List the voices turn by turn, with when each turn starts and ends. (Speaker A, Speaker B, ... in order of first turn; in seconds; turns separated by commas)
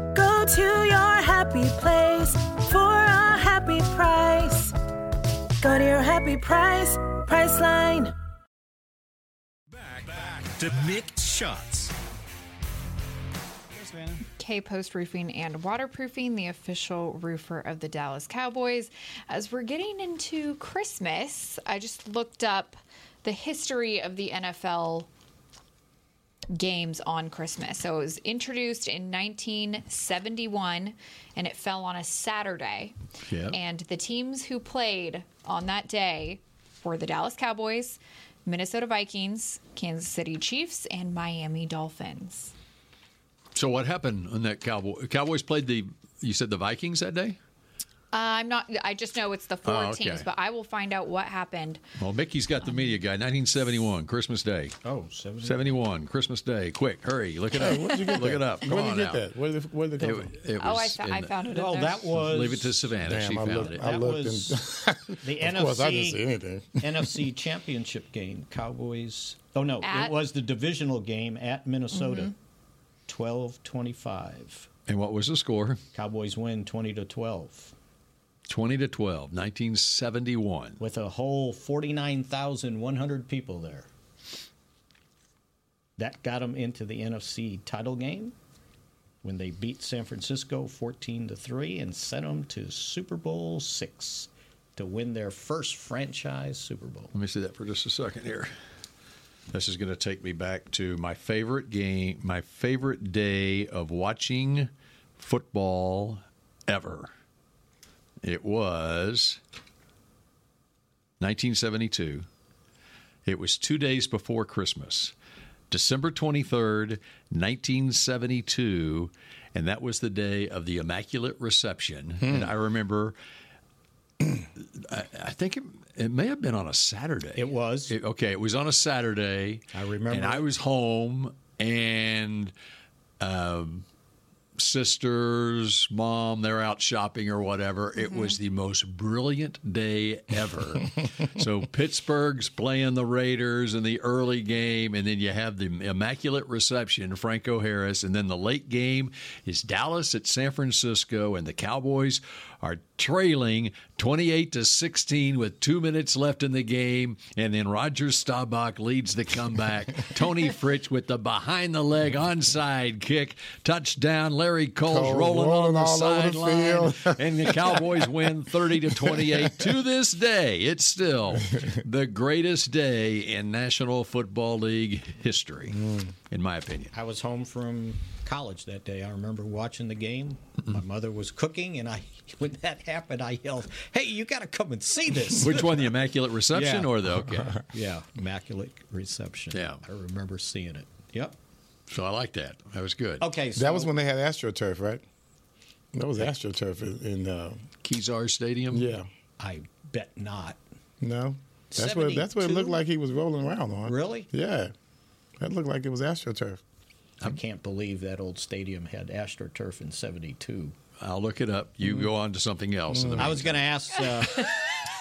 Speaker A: 0.1-4.7, Speaker A: 5.6-8.1, Speaker B: 9.7-11.9, Speaker B: 13.8-14.2, Speaker C: 14.4-25.1, Speaker C: 26.5-33.0, Speaker D: 33.3-33.6, Speaker C: 33.5-42.5, Speaker D: 43.5-47.4, Speaker C: 48.1-51.8, Speaker D: 49.6-50.3, Speaker D: 52.0-54.8, Speaker E: 54.8-55.8, Speaker D: 55.4-59.2, Speaker F: 57.5-60.3, Speaker D: 60.0-61.4, Speaker C: 60.6-62.1, Speaker E: 61.5-62.8, Speaker D: 62.2-63.9, Speaker F: 63.0-67.2, Speaker E: 63.6-64.6, Speaker E: 65.2-66.2, Speaker E: 66.8-72.3, Speaker C: 69.8-70.2, Speaker C: 71.9-72.3, Speaker E: 73.1-74.7, Speaker D: 74.9-75.8, Speaker E: 75.9-77.7, Speaker D: 78.5-80.8, Speaker E: 80.8-83.9, Speaker E: 86.0-88.4, Speaker E: 89.2-97.1, Speaker D: 97.1-98.5, Speaker D: 99.5-107.1, Speaker D: 108.2-109.4, Speaker D: 111.2-112.3, Speaker D: 113.3-115.1, Speaker D: 115.7-123.2, Speaker F: 122.2-122.5, Speaker D: 124.8-132.5, Speaker E: 127.4-127.9, Speaker E: 129.7-130.5, Speaker D: 133.2-133.9, Speaker D: 134.6-175.8, Speaker C: 138.0-138.4, Speaker F: 164.8-168.1, Speaker F: 169.0-169.4, Speaker F: 175.7-176.1, Speaker D: 176.3-176.9, Speaker E: 176.9-185.9, Speaker D: 185.4-187.6, Speaker E: 186.5-187.1, Speaker E: 187.6-191.4, Speaker D: 189.5-189.8, Speaker D: 191.9-193.2, Speaker E: 193.2-193.9, Speaker F: 193.6-195.0, Speaker F: 195.9-197.6, Speaker D: 197.8-198.9, Speaker F: 198.7-199.1, Speaker E: 199.4-200.6, Speaker F: 201.0-204.7, Speaker E: 201.7-202.8, Speaker E: 203.9-204.3, Speaker F: 205.4-206.6, Speaker E: 207.2-210.8, Speaker D: 211.0-213.7, Speaker F: 212.9-213.4, Speaker E: 213.2-214.5